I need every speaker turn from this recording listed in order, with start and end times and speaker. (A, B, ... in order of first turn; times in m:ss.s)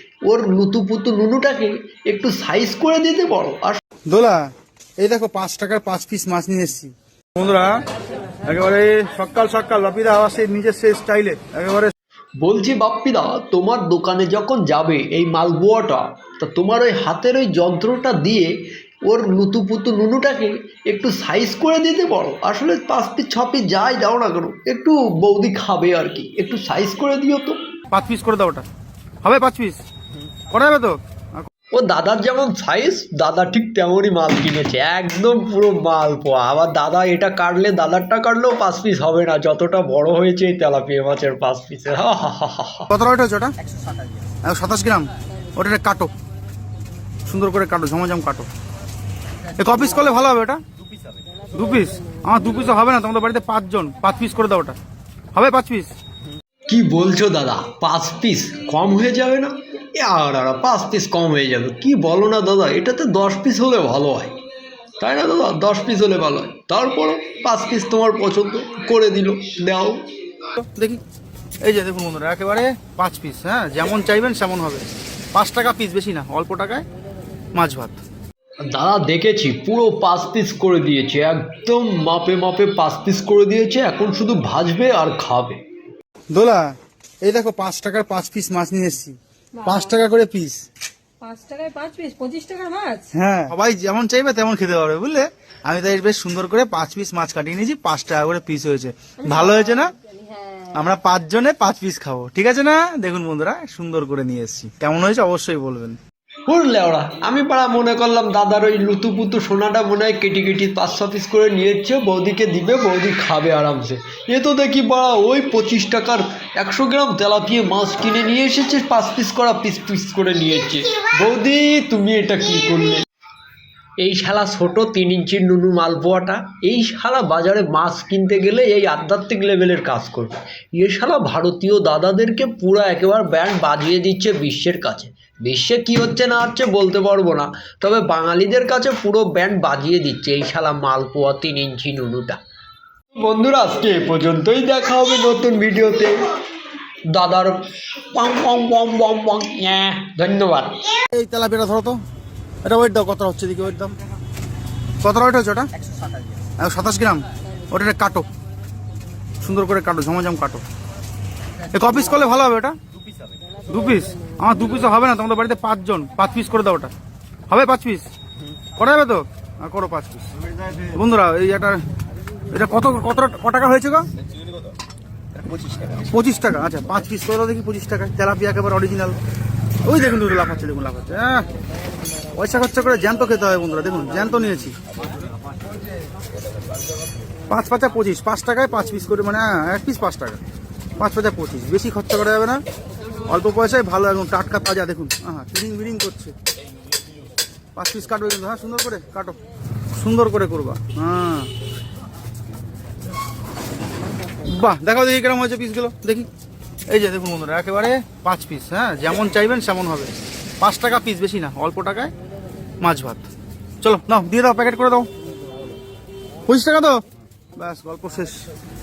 0:00.2-0:03.8 A
0:04.1-0:07.8 B
0:08.4-0:11.9 B
0:12.4-0:18.5 A
0:19.0-0:27.6 A
0:27.9-0:28.6 B
0:29.2-0:29.8 B
0:30.5-0:31.5 B
0:31.7-0:42.9 A
0:42.9-0:43.5 B
0:44.4-0:46.1 B
0:47.2-0:48.5 B
0:49.6-0:50.6 B
0:51.5-0:54.8 B
0:55.3-0:55.9 B
0:56.7-1:04.4 A
1:05.0-1:10.0 A
1:10.6-1:11.0 B
1:11.6-1:16.8 B
1:17.5-1:18.0 B
1:18.6-1:25.6 A
1:26.3-1:30.6 B
1:31.2-1:33.1 C
1:33.1-1:39.9 B
1:40.3-1:40.6 C
1:40.7-1:46.0 B
1:46.5-2:03.0 A
2:04.0-2:22.4 A
2:23.2-2:26.2 A
2:27.1-2:30.9 A
2:31.1-2:32.0 B
2:32.6-2:33.9 B
2:35.0-2:35.7 B
2:36.6-2:38.3 B
2:39.4-2:40.6 B
2:41.7-2:42.8 B
2:43.7-2:46.9 B
2:47.5-2:48.1 B
2:48.8-2:50.3 B
2:50.8-2:51.8 B
2:52.5-2:54.1 B
2:56.0-2:59.2 B
2:59.8-3:01.5 B
3:02.3-3:04.8 B
3:07.5-3:10.4 B
3:11.0-3:12.6 B
3:13.2-3:16.3 B
3:17.8-3:19.4 B
3:20.0-3:21.5 B
3:24.4-3:26.3 B
3:26.9-3:32.1 B
3:32.8-3:33.2 B
3:33.8-3:35.1 B
3:36.5-3:37.0 B
3:37.6-3:38.4 B